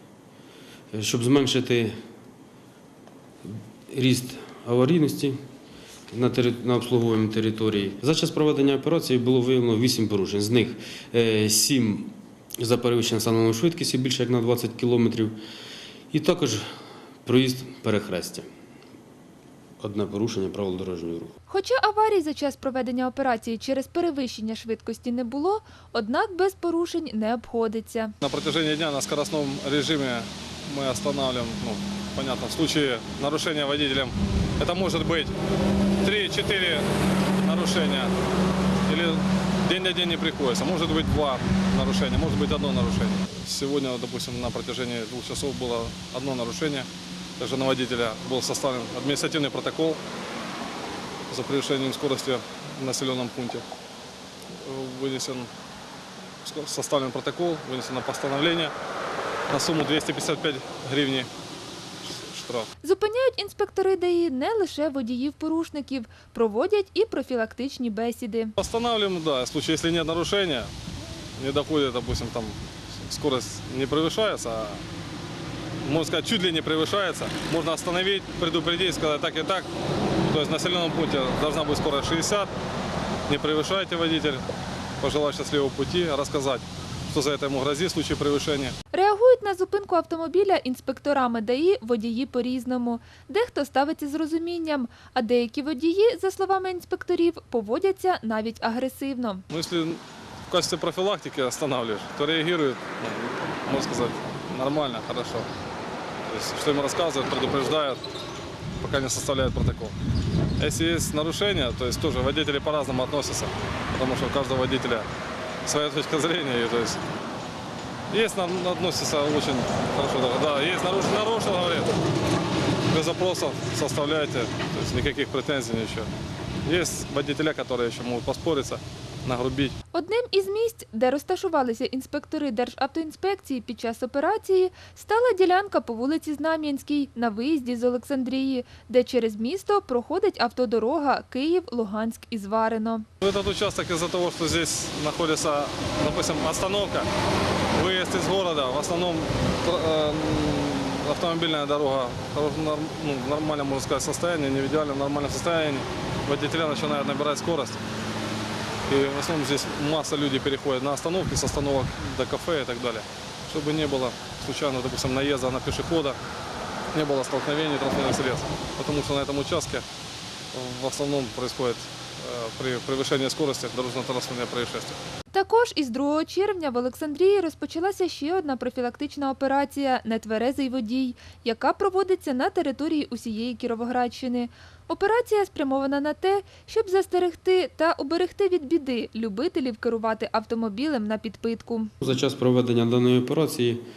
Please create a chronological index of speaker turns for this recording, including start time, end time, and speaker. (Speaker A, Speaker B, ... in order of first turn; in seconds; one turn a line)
Speaker A: 0.9-1.9
Speaker A: 3.4-5.4
Speaker A: 6.1-15.4
Speaker A: 16.1-16.6
Speaker A: 17.2-18.4
Speaker A: 19.8-21.3
Speaker B: 21.5-28.1
Speaker C: 28.2-35.3
Speaker C: 36.0-36.9
Speaker C: 37.4-38.1
Speaker C: 38.9-46.9
Speaker C: 47.4-50.0
Speaker C: 51.3-53.6
Speaker C: 54.6-55.5
Speaker C: 56.4-58.7
Speaker C: 59.5-61.3
Speaker C: 62.0-62.7
Speaker B: 62.8-68.5
Speaker C: 68.6-70.7
Speaker C: 71.4-74.8
Speaker C: 75.8-79.7
Speaker C: 80.2-82.5
Speaker C: 83.3-84.5
Speaker C: 85.0-88.7
Speaker B: 88.9-99.4
Speaker C: 99.5-105.5
Speaker C: 106.3-108.0
Speaker C: 108.8-110.0
Speaker C: 110.6-115.1
Speaker C: 115.6-117.0
Speaker C: 118.1-121.9
Speaker C: 122.9-126.1
Speaker C: 126.6-129.7
Speaker B: 129.9-143.0
Speaker C: 143.2-147.1
Speaker C: 147.7-157.8
Speaker C: 158.9-166.2
Speaker C: 166.9-169.8
Speaker C: 170.5-175.0
Speaker B: 175.3-191.9
Speaker A: 192.0-193.8